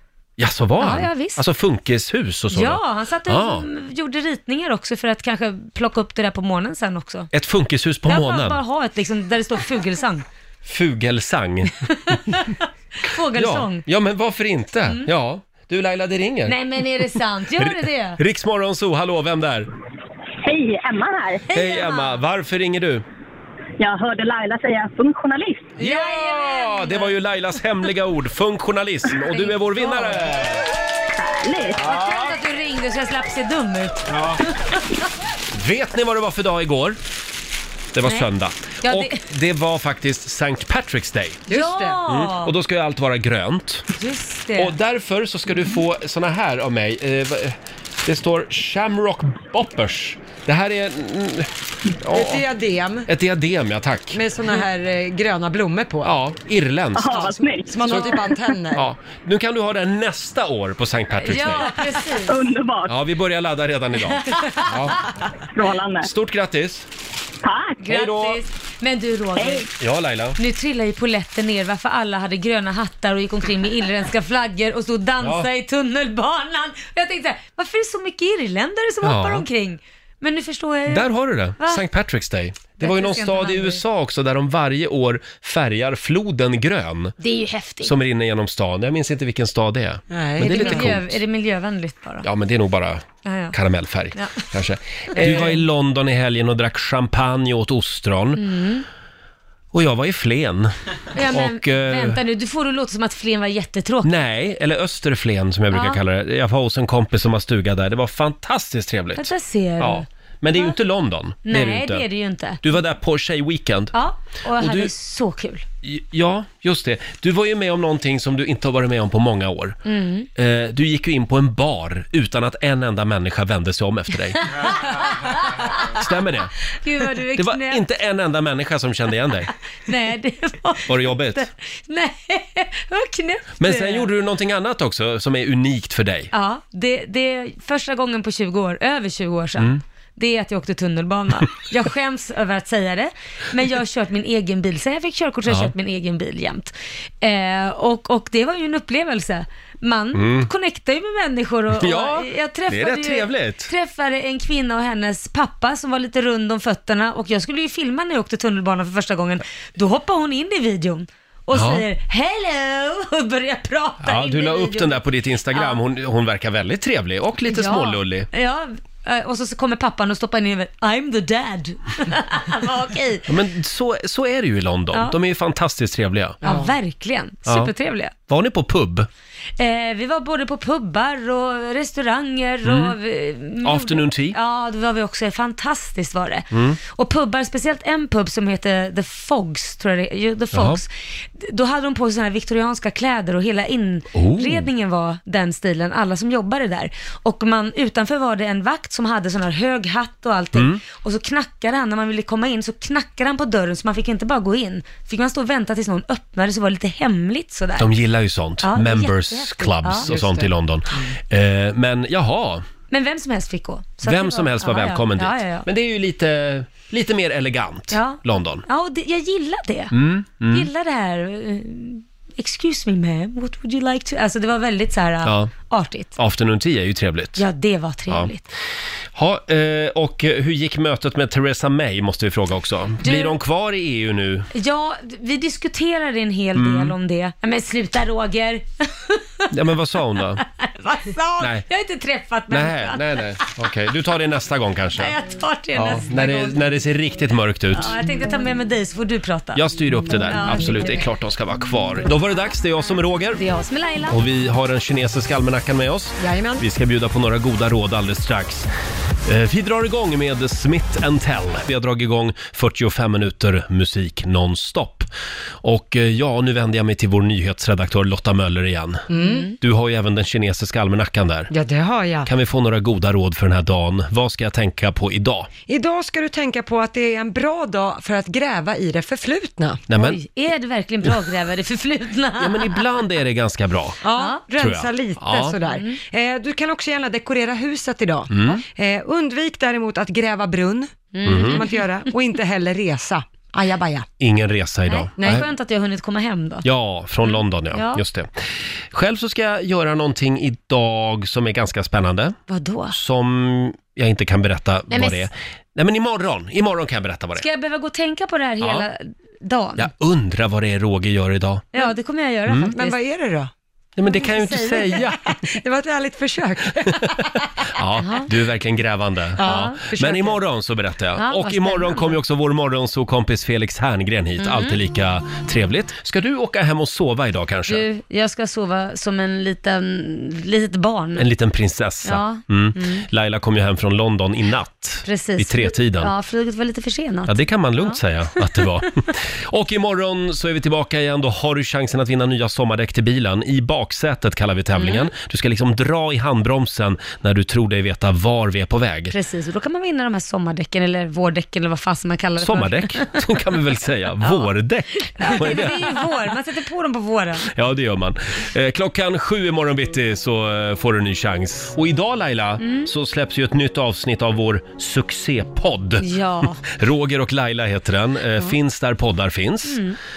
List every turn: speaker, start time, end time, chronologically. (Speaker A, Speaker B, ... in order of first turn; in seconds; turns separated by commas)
Speaker A: 0.4-3.6, Speaker B: 0.8-1.4, Speaker B: 2.5-7.3, Speaker A: 7.3-8.6, Speaker B: 8.1-10.3, Speaker A: 10.7-11.8, Speaker B: 12.1-13.8, Speaker A: 13.3-16.6, Speaker B: 16.5-18.2, Speaker A: 17.6-19.7, Speaker C: 20.4-21.3, Speaker B: 21.5-22.2, Speaker A: 21.5-23.0, Speaker C: 23.8-25.7, Speaker A: 25.8-30.7, Speaker B: 25.8-27.2, Speaker B: 29.1-30.3, Speaker C: 31.5-31.7, Speaker A: 31.8-32.3, Speaker B: 31.8-34.6, Speaker A: 34.1-34.4, Speaker A: 35.5-37.0, Speaker A: 37.9-41.5, Speaker B: 38.8-39.2, Speaker D: 41.5-42.0, Speaker B: 41.5-42.5, Speaker A: 42.1-43.9, Speaker B: 43.9-44.8, Speaker A: 44.6-51.5, Speaker A: 52.0-52.4, Speaker D: 52.1-53.1, Speaker A: 53.1-54.2, Speaker D: 54.1-56.1, Speaker A: 56.0-57.3, Speaker C: 57.0-57.7, Speaker D: 57.1-58.9, Speaker A: 58.8-61.7, Speaker B: 61.1-62.4, Speaker C: 62.2-62.9, Speaker A: 62.9-65.0, Speaker B: 64.2-64.7, Speaker C: 65.5-66.1, Speaker A: 66.0-66.9, Speaker B: 67.8-69.7, Speaker A: 67.9-68.4, Speaker A: 69.8-70.4, Speaker B: 70.4-81.8, Speaker A: 75.2-75.5, Speaker A: 79.0-79.5, Speaker A: 80.9-87.2, Speaker B: 82.8-83.8, Speaker B: 87.2-87.9, Speaker A: 87.8-91.2, Speaker D: 90.1-91.0, Speaker B: 90.4-92.3, Speaker A: 92.2-98.5, Speaker B: 93.2-93.5, Speaker B: 94.2-94.5, Speaker B: 95.1-95.6, Speaker B: 98.4-98.8, Speaker A: 99.7-102.2, Speaker B: 101.1-104.1, Speaker A: 104.0-109.3, Speaker B: 105.7-106.0, Speaker B: 109.2-110.8, Speaker A: 109.8-112.0, Speaker B: 111.5-112.6, Speaker A: 112.6-114.0, Speaker B: 113.9-115.6, Speaker A: 114.6-114.9, Speaker A: 115.8-119.8, Speaker B: 119.9-120.3, Speaker A: 120.4-124.7, Speaker B: 124.4-126.0, Speaker A: 125.8-126.5, Speaker B: 126.8-127.8, Speaker A: 127.3-129.5, Speaker B: 129.9-134.1, Speaker A: 130.9-131.4, Speaker A: 133.6-136.3, Speaker B: 136.3-165.8, Speaker A: 150.1-150.5, Speaker A: 151.8-153.7, Speaker A: 161.5-161.8, Speaker A: 164.0-168.3, Speaker B: 167.4-173.3, Speaker A: 173.3-176.4, Speaker D: 176.4-176.7, Speaker B: 176.4-178.1, Speaker A: 177.5-177.7, Speaker A: 178.3-179.1, Speaker B: 179.6-207.9, Speaker A: 182.7-183.0, Speaker A: 183.6-184.4, Speaker A: 186.5-186.8, Speaker A: 190.5-190.8, Speaker A: 194.1-194.7, Speaker A: 200.6-200.8, Speaker A: 207.8-212.6, Speaker B: 208.6-210.1, Speaker D: 210.1-210.5, Speaker B: 212.9-215.7, Speaker A: 214.0-218.6, Speaker B: 217.9-219.9, Speaker A: 219.9-220.7, Speaker B: 220.5-226.2, Speaker A: 225.2-225.5, Speaker A: 226.2-227.4, Speaker B: 227.4-228.4, Speaker A: 229.2-234.5, Speaker B: 233.0-233.4, Speaker B: 234.5-239.5, Speaker A: 236.6-236.9, Speaker A: 239.5-240.4, Speaker B: 240.4-243.5, Speaker A: 242.5-245.2, Speaker B: 245.0-246.6, Speaker A: 245.8-247.9, Speaker B: 247.7-249.7, Speaker A: 249.6-253.4, Speaker B: 250.2-251.1, Speaker B: 253.4-254.2, Speaker A: 254.1-258.7, Speaker D: 256.2-256.6, Speaker A: 259.3-265.1, Speaker A: 265.6-271.5, Speaker D: 269.1-269.5, Speaker D: 271.5-272.3, Speaker A: 272.2-275.5, Speaker D: 275.7-279.8, Speaker A: 279.9-280.2, Speaker B: 280.0-282.8, Speaker A: 282.4-284.0, Speaker D: 284.0-294.1, Speaker B: 284.2-284.4, Speaker A: 284.6-285.6, Speaker B: 285.6-285.9, Speaker A: 288.3-288.6, Speaker B: 291.1-291.8, Speaker A: 291.2-291.6, Speaker A: 294.2-295.5, Speaker B: 294.9-296.7, Speaker A: 296.6-302.4, Speaker B: 297.3-298.0, Speaker B: 302.5-302.9, Speaker A: 302.9-307.4, Speaker B: 304.9-305.3, Speaker B: 307.4-309.9, Speaker A: 309.8-311.7, Speaker B: 311.7-313.0, Speaker A: 312.5-312.8, Speaker D: 312.7-313.5, Speaker A: 314.0-315.4, Speaker B: 314.1-315.1, Speaker D: 315.5-317.4, Speaker A: 316.9-317.1, Speaker A: 317.7-327.9, Speaker B: 318.0-318.3, Speaker D: 319.4-320.4, Speaker B: 319.4-319.8, Speaker B: 321.2-322.2, Speaker B: 324.4-324.8, Speaker B: 327.7-331.3, Speaker A: 331.2-336.1, Speaker B: 332.1-333.1, Speaker B: 335.1-338.0, Speaker A: 337.3-349.1, Speaker B: 344.8-345.1, Speaker B: 349.1-353.2, Speaker A: 352.4-355.9, Speaker B: 354.2-357.5, Speaker A: 357.5-366.1, Speaker B: 362.6-362.9, Speaker B: 366.0-366.6, Speaker A: 366.6-369.8, Speaker B: 369.7-370.0